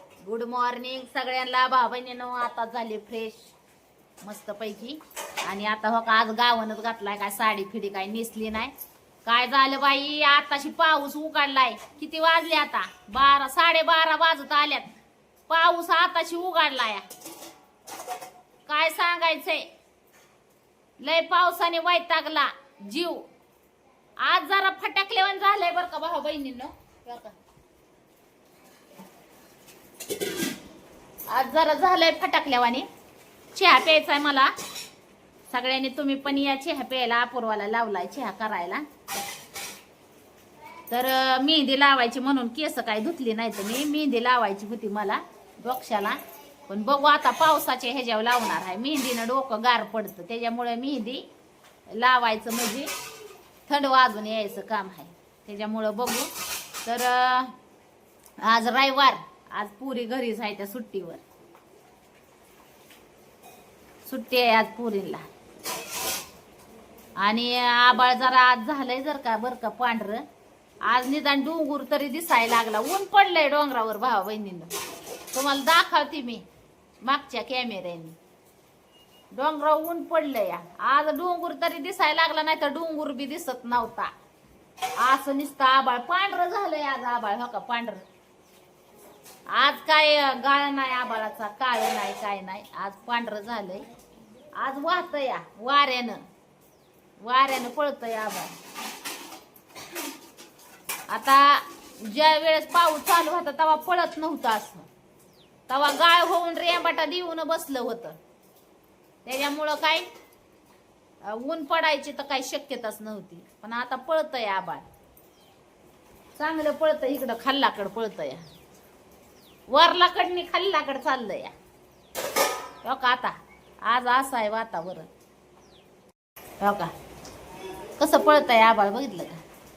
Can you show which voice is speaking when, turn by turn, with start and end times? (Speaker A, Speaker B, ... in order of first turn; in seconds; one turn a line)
Speaker A: 0.2-3.5
Speaker A: 4.2-8.7
Speaker A: 9.3-14.9
Speaker A: 15.5-17.1
Speaker A: 18.7-19.7
Speaker A: 21.0-23.3
Speaker A: 24.2-27.4
Speaker A: 31.3-32.9
Speaker A: 33.5-34.5
Speaker A: 35.5-38.8
Speaker A: 40.9-51.3
Speaker A: 51.9-52.9
Speaker A: 53.7-56.3
Speaker A: 56.9-57.5
Speaker A: 58.4-61.2
Speaker A: 64.1-65.2
Speaker A: 67.2-70.2
Speaker A: 70.9-74.7
Speaker A: 75.3-76.5
Speaker A: 77.0-78.2
Speaker A: 79.3-84.1
Speaker A: 85.0-88.0
Speaker A: 89.5-93.9
Speaker A: 94.6-96.2
Speaker A: 97.2-98.5
Speaker A: 101.1-104.9
Speaker A: 105.7-108.2
Speaker A: 109.3-110.1
Speaker A: 111.2-114.9
Speaker A: 116.4-118.4
Speaker A: 119.7-121.5
Speaker A: 122.8-123.3
Speaker A: 123.9-125.1
Speaker A: 126.6-126.9
Speaker A: 128.0-129.4